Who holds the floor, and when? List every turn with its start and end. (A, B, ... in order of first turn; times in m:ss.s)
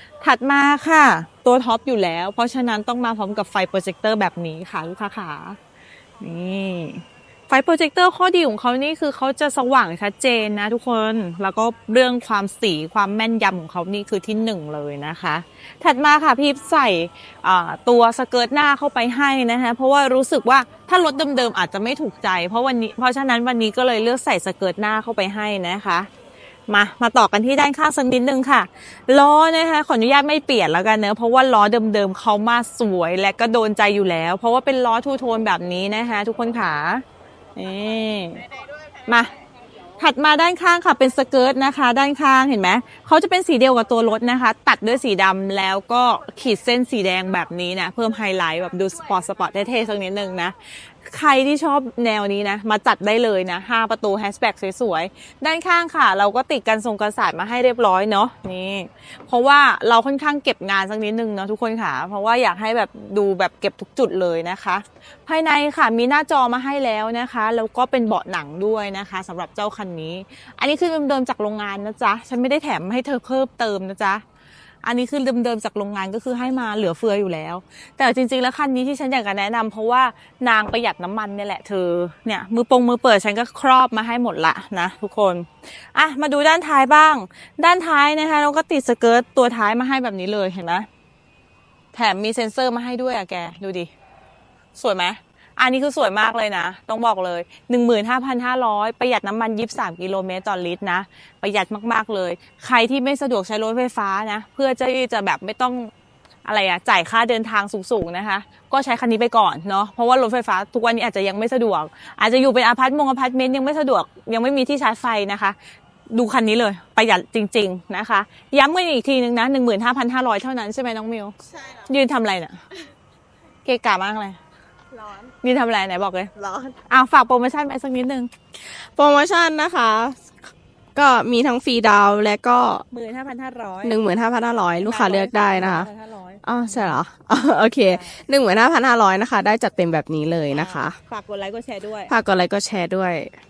0:00.2-0:05.6 A
0:06.2-0:26.1 A
0:26.7-0:37.0 A
0:37.6-0:38.4 A
0:40.0-1:14.2 A
1:14.8-1:30.9 A
1:31.9-1:33.9 A
1:34.8-1:45.9 A
1:46.4-1:55.6 A
1:56.1-2:01.3 A
2:01.9-2:02.6 A
2:03.6-2:04.4 A
2:05.4-2:06.3 A
2:06.4-2:06.8 B
2:06.9-2:08.3 A
2:08.6-2:12.8 B
2:12.9-2:14.0 A
2:13.8-2:15.9 B
2:14.8-2:17.0 A
2:16.4-2:21.0 B
2:17.9-2:18.2 A
2:20.5-2:22.1 A
2:22.1-2:23.4 B